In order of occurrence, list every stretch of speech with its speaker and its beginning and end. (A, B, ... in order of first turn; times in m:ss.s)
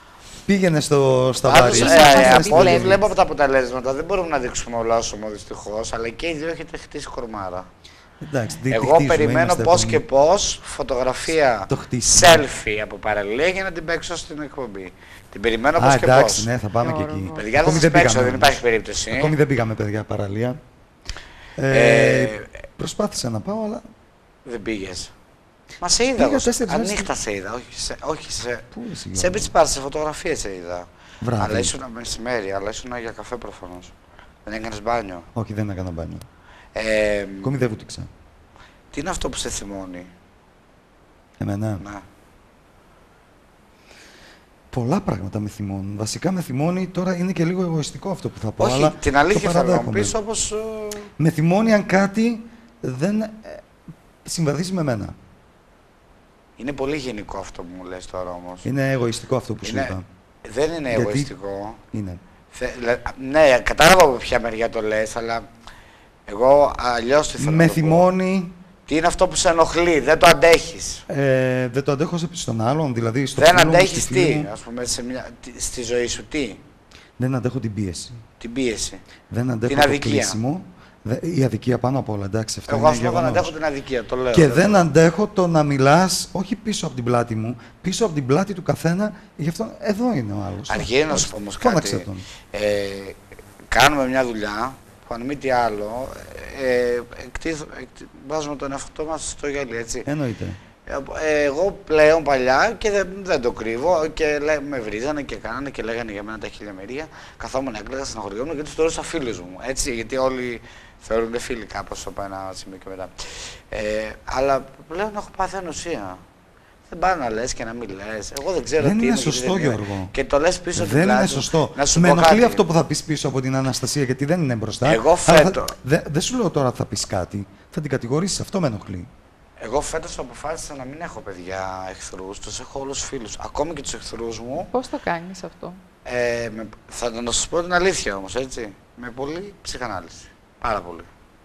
0:00.5-0:03.0 A
0:01.4-0:07.7 B
0:01.6-0:03.0 C
0:08.2-0:10.0 A
0:08.7-0:16.5 B
0:11.7-0:12.4 A
0:15.8-0:20.6 A
0:16.8-0:17.4 C
0:17.4-0:19.3 B
0:21.6-0:23.8 A
0:21.7-0:22.5 B
0:24.5-0:25.1 B
0:25.8-0:30.9 B
0:26.2-0:27.1 A
0:28.7-0:29.5 A
0:31.2-0:31.7 A
0:31.4-0:33.9 B
0:34.5-0:35.3 B
0:35.4-0:36.3 A
0:36.8-0:37.5 B
0:37.4-0:38.1 A
0:38.9-0:40.1 B
0:41.4-0:41.8 A
0:44.7-0:50.2 A
0:48.6-0:51.1 B
0:51.2-0:53.6 A
0:54.2-0:55.2 A
0:56.6-0:58.7 B
0:58.6-1:00.0 A
0:59.6-1:01.8 B
1:00.9-1:01.3 A
1:01.9-1:02.2 A
1:02.5-1:05.5 B
1:06.3-1:08.1 B
1:07.4-1:08.5 A
1:08.9-1:11.0 B
1:11.1-1:14.5 A
1:13.4-1:16.6 B
1:17.2-1:18.2 A
1:18.4-1:19.0 B
1:19.3-1:23.5 A
1:19.7-1:20.4 B
1:22.7-1:24.9 B
1:24.3-1:32.2 A
1:30.7-1:33.2 B
1:33.7-1:40.1 B
1:40.0-1:40.6 A
1:40.9-1:56.2 B
1:56.9-2:02.6 B
1:58.8-2:00.1 A
2:00.8-2:09.1 A
2:04.8-2:05.8 B
2:09.6-2:14.7 B
2:14.6-2:15.8 C
2:16.0-2:21.1 B